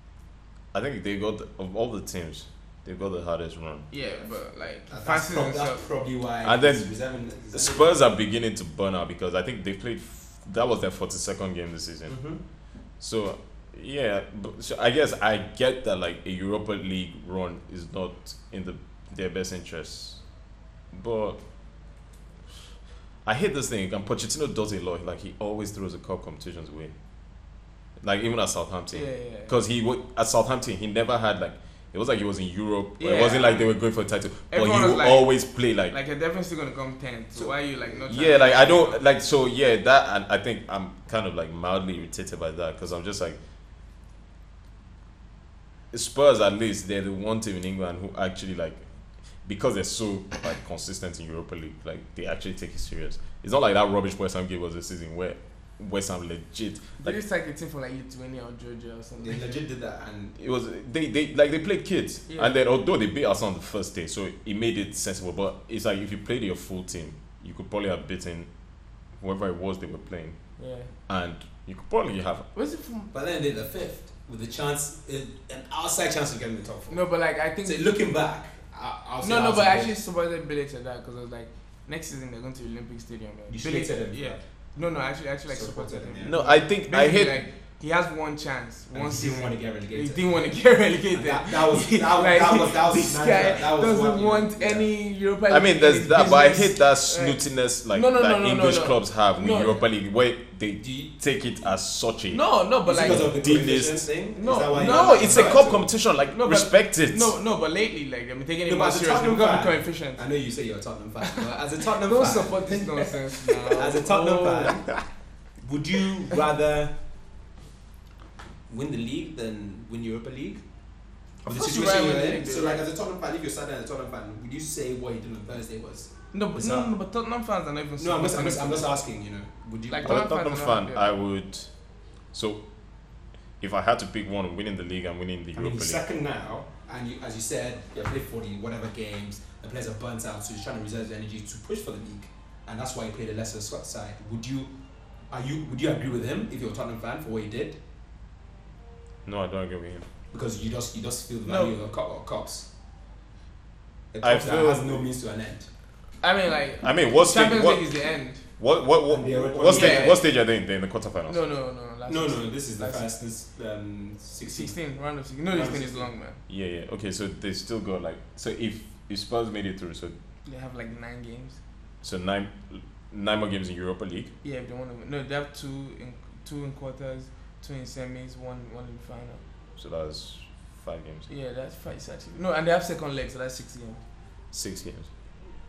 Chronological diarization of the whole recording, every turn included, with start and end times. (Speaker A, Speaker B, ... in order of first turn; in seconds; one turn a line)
Speaker A: 0.7-3.9
Speaker B: 3.9-5.9
Speaker C: 4.9-8.0
Speaker A: 6.4-20.3
Speaker C: 12.1-12.4
Speaker A: 20.9-21.4
Speaker A: 23.2-26.9
Speaker A: 28.0-36.0
Speaker B: 28.9-29.5
Speaker B: 33.0-39.0
Speaker C: 37.4-38.0
Speaker A: 38.1-43.4
Speaker A: 45.9-57.2
Speaker B: 57.0-59.4
Speaker C: 59.2-60.4
Speaker A: 60.4-72.5
Speaker B: 62.3-62.6
Speaker B: 70.6-70.9
Speaker B: 72.5-73.1
Speaker C: 73.1-80.0
Speaker B: 76.9-77.9
Speaker B: 79.2-99.8
Speaker C: 83.5-84.4
Speaker C: 85.5-86.5
Speaker A: 86.2-87.4
Speaker C: 88.9-94.9
Speaker A: 95.5-104.1
Speaker C: 100.8-101.1
Speaker B: 102.3-103.4
Speaker C: 102.8-105.9
Speaker B: 104.3-110.3
Speaker A: 104.7-107.3
Speaker C: 108.7-115.0
Speaker B: 112.0-114.9
Speaker C: 115.6-117.0
Speaker C: 118.7-120.6
Speaker C: 121.4-126.9
Speaker B: 121.4-122.8
Speaker B: 126.3-129.1
Speaker C: 128.0-130.3
Speaker B: 129.9-131.1
Speaker A: 130.0-133.1
Speaker A: 133.6-136.0
Speaker C: 135.6-144.7
Speaker C: 145.3-147.8
Speaker A: 149.3-150.1
Speaker C: 150.3-152.7
Speaker B: 151.5-151.8
Speaker C: 154.1-155.7
Speaker A: 154.2-155.1
Speaker B: 156.2-158.4
Speaker A: 156.8-161.4
Speaker C: 159.1-160.2
Speaker B: 159.7-160.3
Speaker B: 161.3-163.1
Speaker C: 162.1-164.9
Speaker B: 164.5-166.4
Speaker C: 165.5-166.1
Speaker A: 166.5-170.2
Speaker B: 170.4-171.6
Speaker A: 172.0-174.3
Speaker B: 174.4-179.4
Speaker A: 179.8-181.3
Speaker B: 181.3-184.0
Speaker A: 184.5-185.1